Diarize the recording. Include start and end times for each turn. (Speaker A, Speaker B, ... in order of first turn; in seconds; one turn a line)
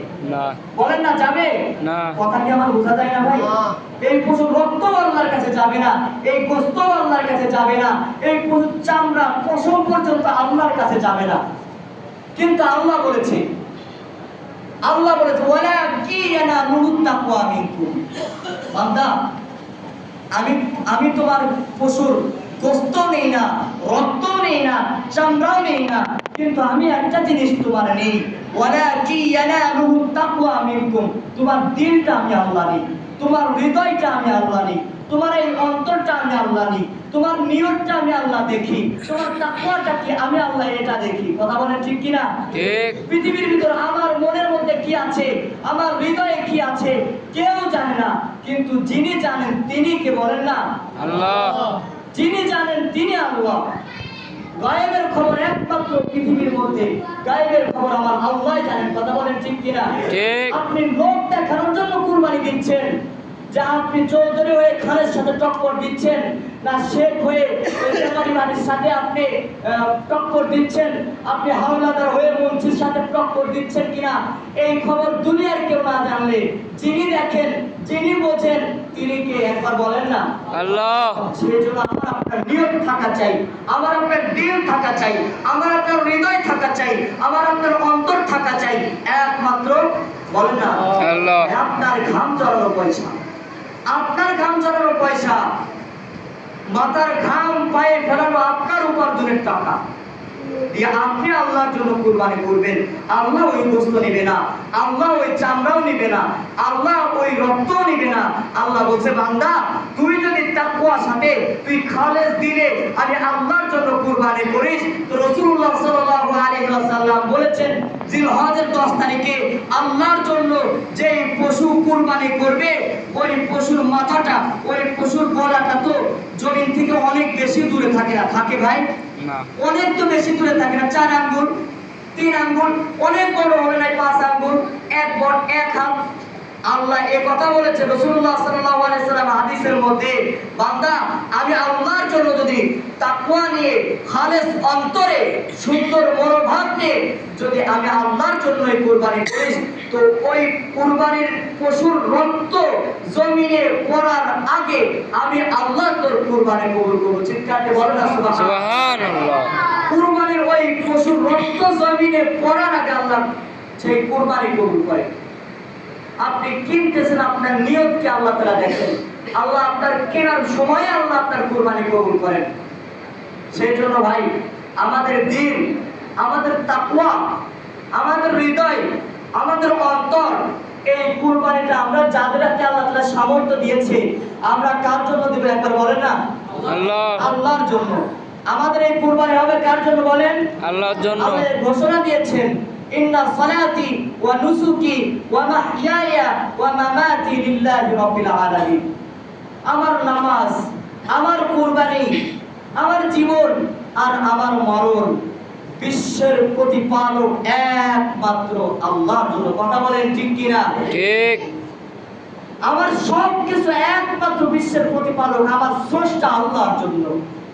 Speaker A: 0.2-0.6
Speaker B: 0.7-11.4
Speaker A: 1.8-2.2
Speaker B: 12.3-13.4
Speaker B: 14.8-18.0
Speaker B: 18.7-19.1
Speaker B: 20.3-50.8
Speaker A: 42.5-43.0
Speaker A: 51.0-51.7
Speaker B: 52.1-53.7
Speaker B: 54.6-62.9
Speaker A: 60.1-60.6
Speaker B: 63.5-80.3
Speaker A: 80.5-81.2
Speaker B: 81.1-93.2
Speaker A: 91.0-91.5
Speaker B: 93.9-95.4
Speaker B: 96.7-99.8
Speaker B: 100.7-128.8
Speaker A: 129.2-129.5
Speaker B: 129.6-131.5
Speaker B: 132.1-135.9
Speaker B: 136.7-158.6
Speaker A: 158.3-159.6
Speaker B: 159.6-163.3
Speaker B: 163.8-165.1
Speaker B: 166.2-172.5
Speaker B: 173.5-174.3
Speaker B: 174.8-177.3
Speaker B: 177.9-178.8
Speaker B: 179.4-186.2
Speaker A: 186.6-187.3
Speaker B: 187.2-190.4
Speaker A: 190.6-191.5
Speaker B: 191.2-198.8
Speaker B: 199.7-202.2
Speaker B: 202.8-205.2
Speaker B: 205.8-210.9
Speaker A: 210.9-211.5
Speaker B: 212.6-217.1